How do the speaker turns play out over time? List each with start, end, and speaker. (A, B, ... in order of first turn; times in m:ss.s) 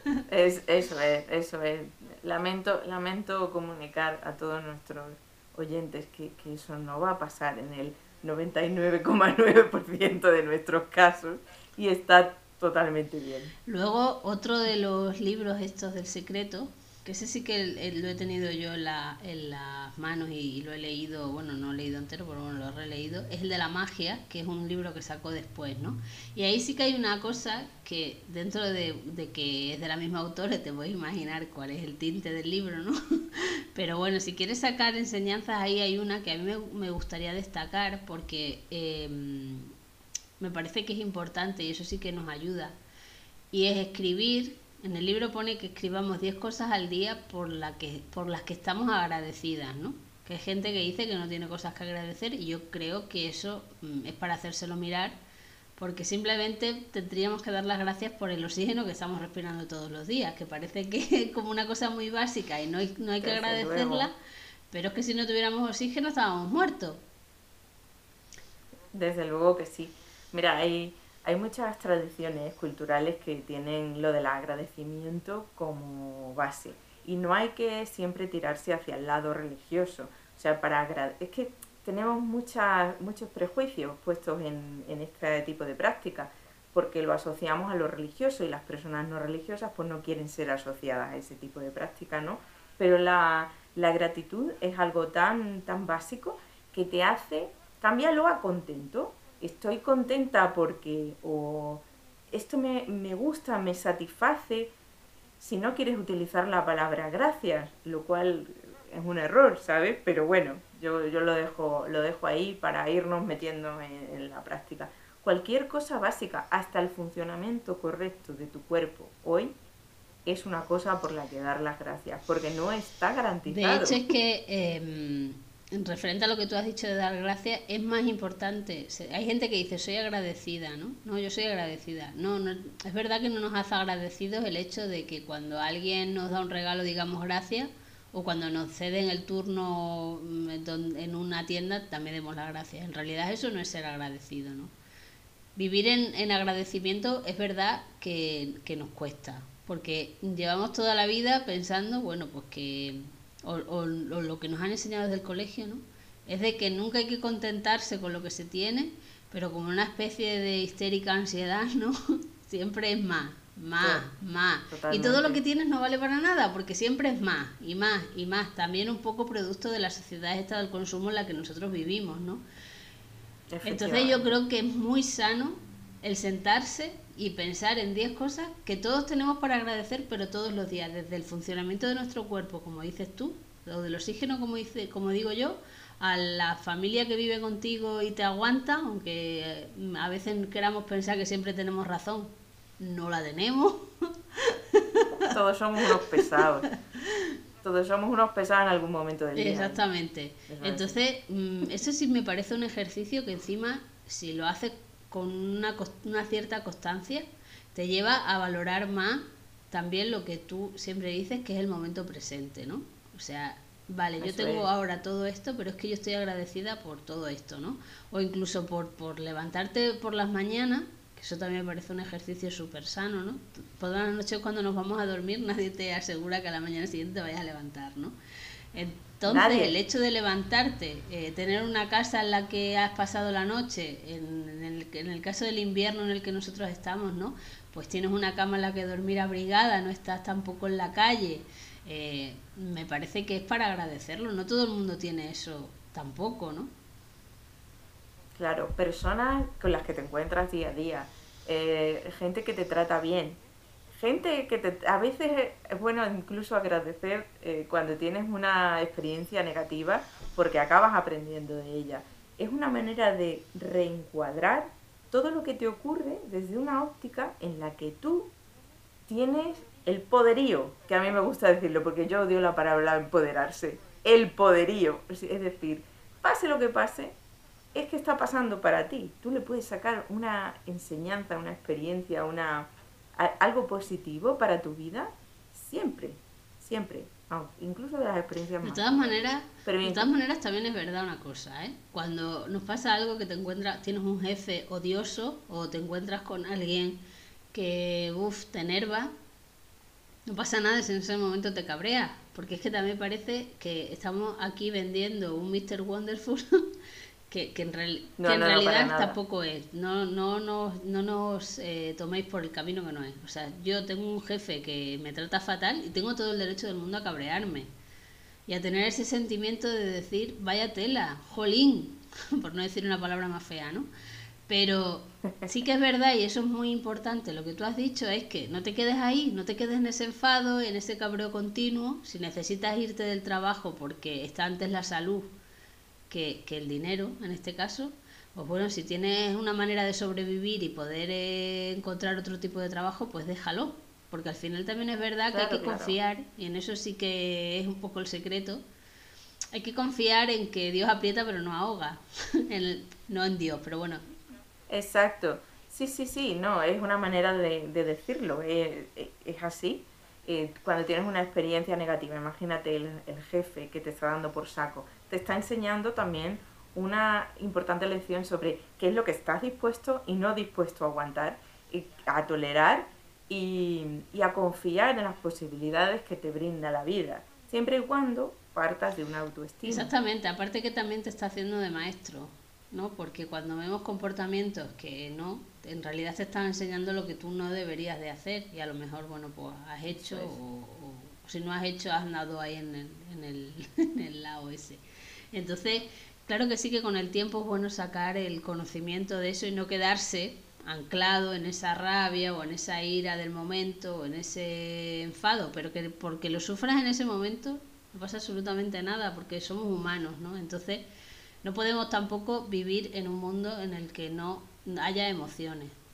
0:00.3-0:13.5 A
0:13.6-0:39.7 B
0:40.4-0:42.7 B
0:43.5-0:55.2 B
0:55.8-1:04.1 B
1:03.2-1:04.1 A
1:04.7-1:07.0 B
1:08.9-1:44.7 A
1:45.4-1:59.5 A
2:00.2-2:04.0 A
2:03.4-2:24.7 B
2:25.6-2:52.4 B
2:43.8-2:44.1 A
2:44.7-2:45.4 A
2:53.5-2:54.4 A
2:53.6-3:15.1 B
3:15.3-3:16.7 A
3:17.6-3:19.8 A
3:19.4-3:48.1 B
3:20.5-3:20.9 A
3:34.2-3:34.7 A
3:48.7-4:06.7 B
3:49.2-3:49.7 A
4:08.4-4:13.4 A
4:13.9-4:28.3 A
4:29.1-4:37.2 A
4:37.7-4:50.1 A
4:48.6-4:57.0 B
4:57.5-4:59.1 B
5:00.3-5:06.6 B
5:07.3-5:17.7 B
5:08.2-5:09.2 A
5:18.5-5:23.9 B
5:24.5-5:35.3 B
5:36.1-5:48.6 B
5:45.3-5:46.0 A
5:49.5-5:54.0 B
5:54.7-6:19.9 A
6:19.6-6:34.8 B
6:29.9-6:30.4 A
6:35.3-6:50.8 B
6:51.4-6:55.7 B